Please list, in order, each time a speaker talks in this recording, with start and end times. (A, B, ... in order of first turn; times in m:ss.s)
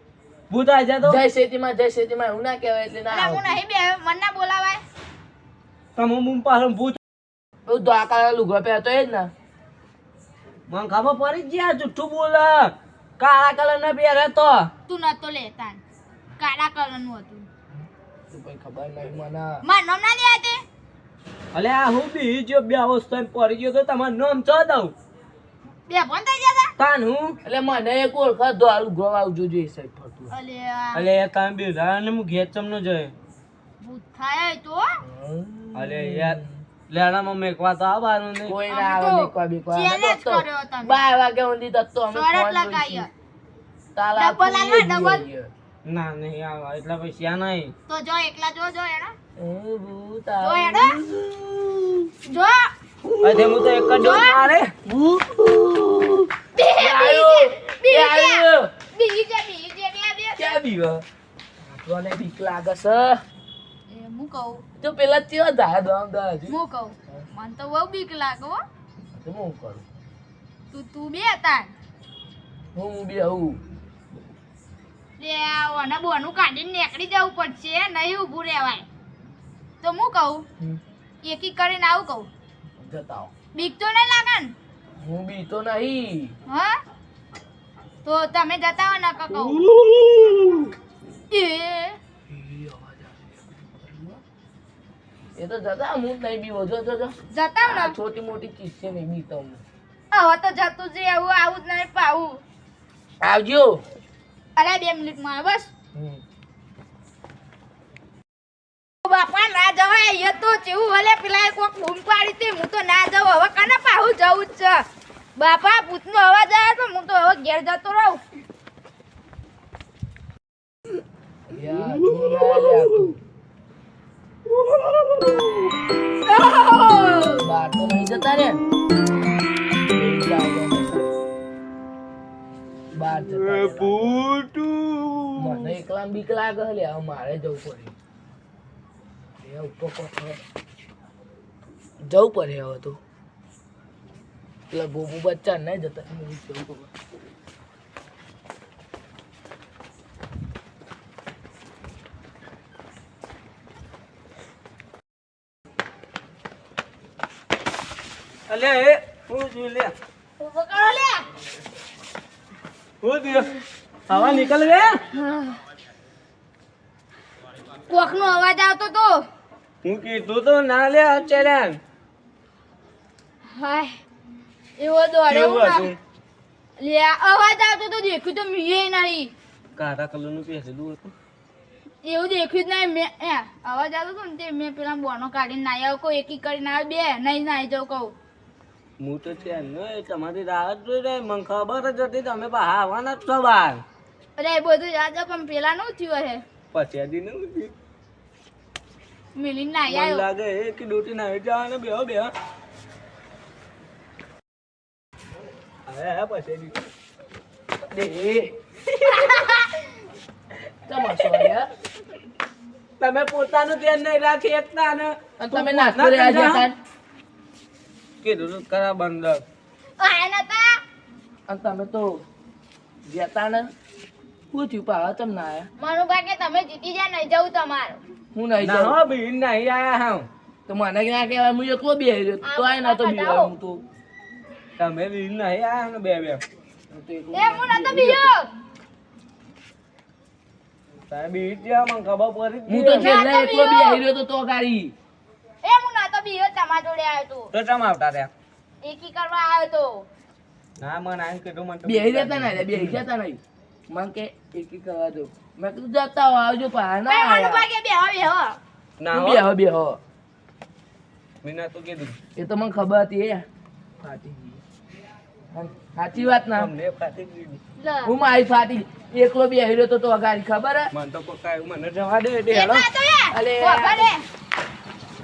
0:00.5-0:01.2 A
0:01.0-0:03.6 B
0:03.1-0:04.8 C
0:06.0-0:07.0 A
0:07.6-0:09.3 B
0:10.7-0:14.7 A
0:14.9-0:15.8 C
0:16.4-0:17.5 C
0:17.7-0:19.6 B
0:19.6-0:20.6 C
0:21.5-0:24.9 A
0:25.9-0:26.7 C
0:26.8-0:27.4 A
0:27.4-0:30.3 B
0:30.3-0:31.1 C
0:30.9-0:33.1 A
0:33.8-0:35.0 C
0:35.0-0:36.6 B
0:35.7-0:36.4 A
0:36.9-0:38.6 A
0:38.4-0:43.1 B
0:38.7-0:41.0 C
0:42.1-0:43.1 C
0:43.9-0:45.5 B
0:44.2-0:45.2 C
0:45.8-0:47.7 A
0:47.9-0:49.1 C
0:49.4-0:52.1 B
0:50.4-0:51.0 C
0:52.3-0:52.7 C
0:53.0-0:54.1 B
0:53.2-0:54.7 A
0:54.0-0:54.5 C
0:54.8-0:58.7 B
0:56.5-1:00.6 C
1:00.4-1:01.0 B
1:01.6-1:03.2 B
1:03.9-1:04.6 C
1:04.8-1:06.6 B
1:06.5-1:08.6 C
1:09.1-1:09.8 B
1:10.7-1:11.7 C
1:12.7-1:13.6 B
1:15.2-1:18.8 C
1:19.8-1:20.4 C
1:21.2-1:22.3 C
1:22.8-1:23.3 B
1:23.5-1:24.5 C
1:25.0-1:26.3 B
1:26.5-1:26.8 C
1:28.0-1:29.6 C
1:29.3-1:30.7 A
1:31.3-1:32.0 C
1:32.3-1:34.2 B
1:35.4-1:39.6 B
1:37.3-1:37.9 C
1:40.1-1:42.4 C
1:43.2-1:43.8 B
1:44.6-1:45.7 C
1:45.9-1:46.2 B
1:49.0-1:54.8 C
1:55.4-1:58.2 C
2:01.5-2:03.2 B
2:01.8-2:03.1 A
2:04.5-2:05.7 A
2:06.2-2:07.4 C
2:07.4-2:08.6 B
2:09.9-2:11.1 B
2:12.9-2:14.2 B
2:13.0-2:15.8 A
2:15.4-2:17.9 B
2:19.4-2:20.4 B
2:22.0-2:23.0 B
2:24.7-2:26.9 B
2:38.5-2:39.9 A
2:40.4-2:41.2 C
2:43.0-2:43.5 A
2:44.1-2:45.0 A
2:45.1-2:45.6 C
2:47.9-2:49.2 C
2:49.8-2:51.8 A
2:53.4-2:54.0 C
2:54.8-2:55.9 C
2:55.3-2:56.0 A
2:56.8-2:59.3 C
2:59.8-3:01.1 A
3:02.0-3:08.1 C
3:09.0-3:13.8 A
3:14.4-3:16.4 C
3:16.7-3:17.7 A
3:19.3-3:20.2 C
3:19.9-3:22.3 A
3:25.9-3:26.8 A
3:27.9-3:28.5 B
3:28.9-3:29.4 A
3:29.1-3:29.8 C
3:30.9-3:31.7 B
3:31.2-3:31.5 A
3:33.0-3:36.7 A
3:35.4-3:36.7 B
3:38.2-3:39.4 A
3:40.0-3:40.8 C
3:41.5-3:42.2 B
3:43.1-3:43.7 B
3:44.5-3:45.7 B
3:45.8-3:48.0 C
3:48.3-3:49.0 B
3:48.6-3:50.3 A
3:50.7-3:53.8 B
3:52.4-3:53.5 C
3:54.8-3:56.4 A
3:56.9-3:58.3 B
3:57.3-3:58.5 C
4:01.1-4:03.1 A
4:02.7-4:04.9 B
4:02.9-4:04.0 C
4:05.6-4:07.5 C
4:07.5-4:08.3 A
4:08.8-4:10.1 C
4:10.8-4:13.0 A
4:11.8-4:17.6 B
4:17.0-4:18.6 C
4:19.0-4:19.4 A
4:19.1-4:20.0 B
4:21.4-4:22.2 A
4:22.4-4:23.4 B
4:24.0-4:24.6 B
4:25.5-4:26.7 B
4:26.5-4:27.6 A
4:27.8-4:28.1 C
4:28.0-4:30.9 B
4:30.9-4:32.8 A
4:32.5-4:34.2 C
4:32.6-4:34.1 B